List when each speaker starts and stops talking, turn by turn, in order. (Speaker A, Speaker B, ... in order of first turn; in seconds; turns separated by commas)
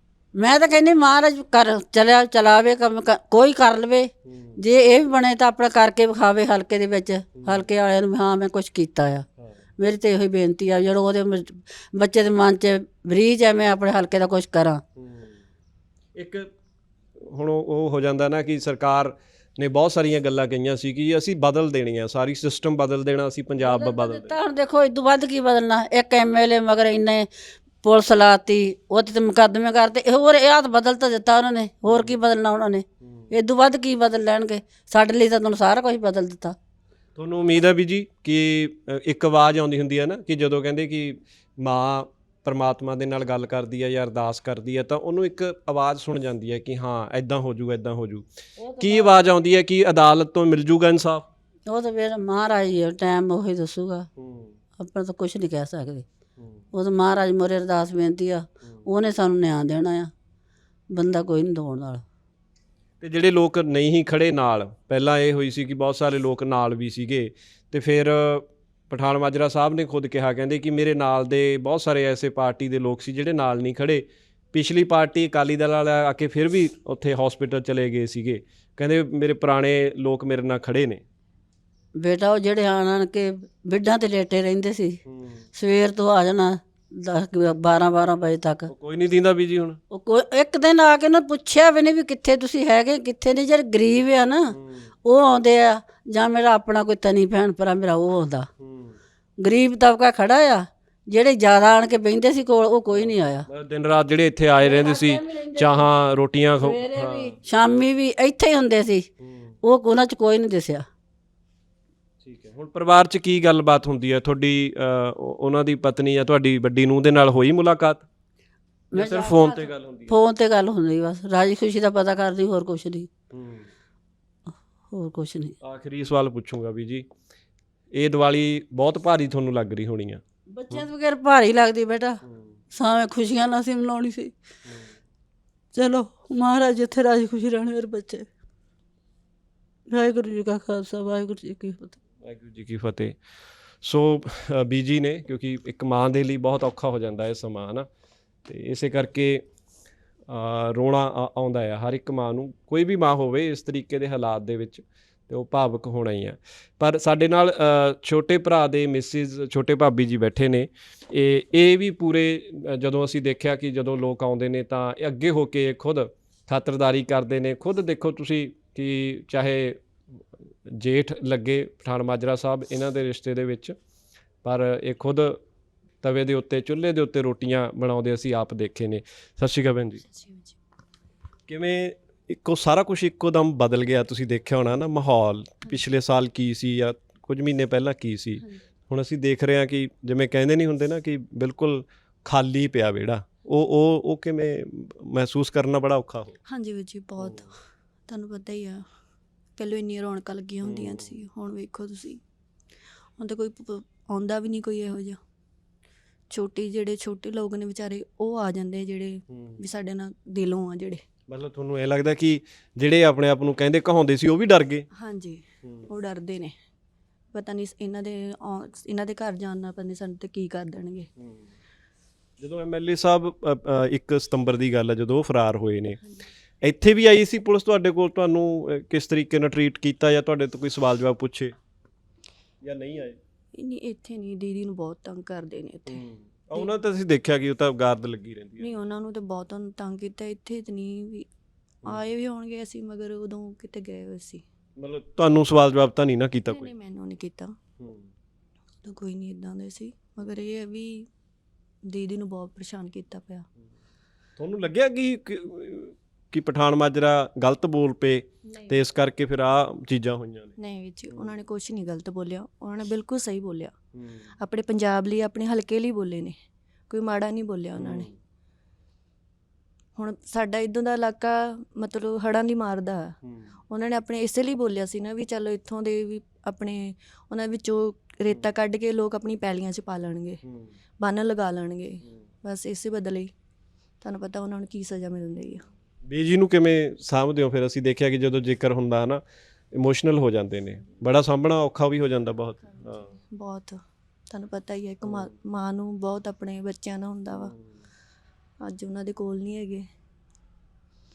Speaker A: 0.3-9.2, Speaker B: 4.3-4.6, Speaker B: 7.4-7.7, Speaker A: 9.8-14.8, Speaker B: 15.0-15.4, Speaker B: 16.1-16.5, Speaker B: 17.2-24.4, Speaker A: 23.6-27.3, Speaker A: 27.8-36.6, Speaker B: 31.9-32.2, Speaker B: 33.0-33.3, Speaker B: 37.2-48.3, Speaker A: 48.6-49.2, Speaker B: 48.8-51.3, Speaker A: 51.7-54.1, Speaker B: 54.2-54.6, Speaker A: 54.8-56.0, Speaker A: 56.7-60.1, Speaker A: 60.9-62.0, Speaker B: 63.0-81.0, Speaker A: 82.0-85.0, Speaker B: 85.1-85.5, Speaker A: 85.5-88.7, Speaker B: 88.7-89.8, Speaker A: 89.9-98.5, Speaker B: 94.5-94.9, Speaker B: 98.6-99.0, Speaker A: 99.4-103.5, Speaker B: 102.9-107.4, Speaker A: 104.6-105.9, Speaker A: 106.6-109.1, Speaker B: 109.2-109.5, Speaker A: 109.6-110.8, Speaker B: 112.2-118.0, Speaker A: 118.9-123.1, Speaker B: 118.9-120.1, Speaker B: 123.3-123.7, Speaker A: 124.9-125.5, Speaker B: 125.6-127.1, Speaker B: 127.9-130.9, Speaker A: 130.5-132.2, Speaker B: 132.2-132.5, Speaker A: 132.7-134.3, Speaker B: 134.7-134.9, Speaker A: 135.8-138.3, Speaker A: 139.9-142.0, Speaker B: 142.2-143.2, Speaker B: 143.8-147.9, Speaker B: 148.5-149.4, Speaker B: 150.3-169.8, Speaker B: 170.7-173.8, Speaker B: 174.4-175.4, Speaker B: 176.0-180.1, Speaker C: 180.1-180.6, Speaker B: 181.5-196.4, Speaker C: 196.5-197.5, Speaker C: 198.1-198.8, Speaker C: 199.6-202.2, Speaker B: 200.6-201.2, Speaker C: 203.2-205.2, Speaker C: 206.3-211.0, Speaker B: 209.3-209.6, Speaker B: 211.3-214.9, Speaker C: 214.9-216.5, Speaker B: 215.6-215.9, Speaker C: 217.3-221.1, Speaker B: 221.2-221.5, Speaker B: 222.4-226.0, Speaker B: 226.6-231.5, Speaker B: 232.6-233.2, Speaker C: 233.5-236.0, Speaker B: 235.9-238.7, Speaker C: 238.6-241.3, Speaker C: 241.8-244.4, Speaker B: 244.8-246.7, Speaker C: 246.5-247.6, Speaker B: 247.8-248.1, Speaker C: 248.8-251.1, Speaker C: 251.9-253.5, Speaker B: 254.4-260.6, Speaker C: 258.5-258.8, Speaker C: 260.6-263.8, Speaker B: 263.9-264.3, Speaker C: 264.4-266.4, Speaker C: 266.9-268.1, Speaker B: 267.8-268.2, Speaker C: 270.0-273.2, Speaker B: 273.2-273.5, Speaker C: 273.7-280.4, Speaker B: 280.4-280.8, Speaker C: 281.0-283.3, Speaker C: 284.0-285.6, Speaker B: 286.1-293.1, Speaker C: 292.7-297.5, Speaker B: 295.0-295.3, Speaker B: 297.4-297.7, Speaker C: 298.6-299.9